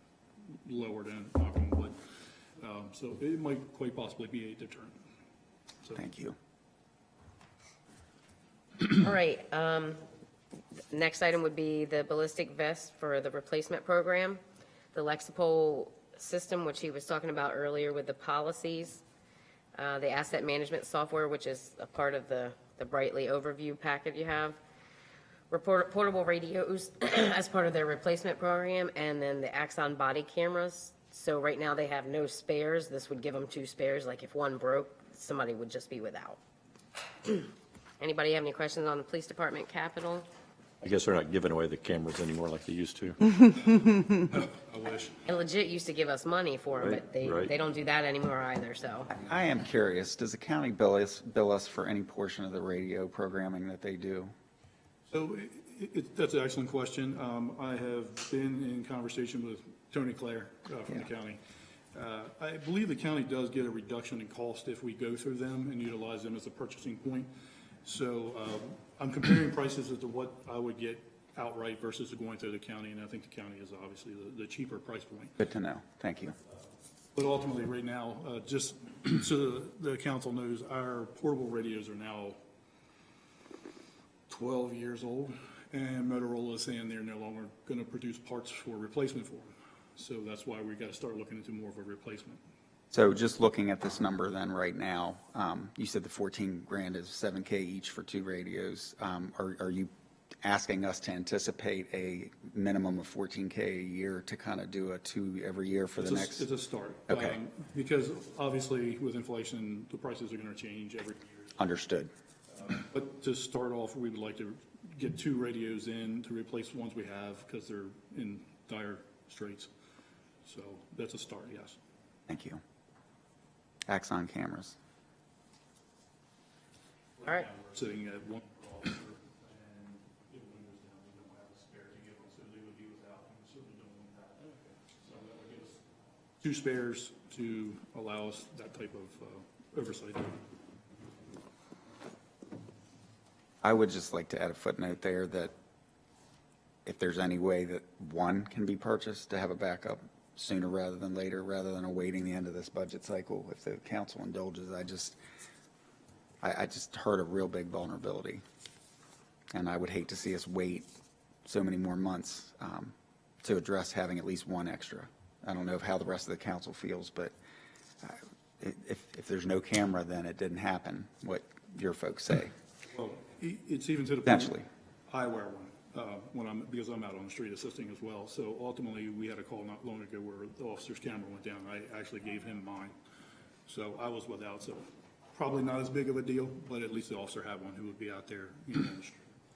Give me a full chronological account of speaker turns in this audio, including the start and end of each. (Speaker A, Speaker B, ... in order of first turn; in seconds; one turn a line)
Speaker A: 0.6-2.0
Speaker A: 2.6-5.0
Speaker B: 5.9-6.3
Speaker C: 8.8-10.0
Speaker C: 10.9-14.4
Speaker C: 14.9-19.0
Speaker C: 19.8-24.6
Speaker C: 25.5-36.4
Speaker C: 37.2-40.3
Speaker D: 40.8-43.4
Speaker A: 43.7-45.2
Speaker C: 45.2-49.1
Speaker D: 46.8-47.5
Speaker B: 49.1-54.3
Speaker A: 55.1-61.4
Speaker A: 61.9-67.3
Speaker A: 67.8-75.3
Speaker B: 75.4-76.3
Speaker A: 77.1-82.4
Speaker A: 84.3-92.4
Speaker B: 92.9-99.9
Speaker B: 100.4-106.5
Speaker A: 106.0-111.5
Speaker B: 107.1-107.4
Speaker B: 111.6-112.1
Speaker A: 112.6-119.7
Speaker A: 120.4-121.8
Speaker B: 122.3-122.6
Speaker B: 123.9-124.7
Speaker A: 127.2-140.4
Speaker B: 143.6-145.5
Speaker B: 146.8-155.2
Speaker B: 156.4-158.4
Speaker B: 159.5-160.9
Speaker B: 161.4-167.3
Speaker B: 168.0-172.5
Speaker A: 172.9-182.9
Speaker B: 174.2-174.7
Speaker A: 183.7-189.3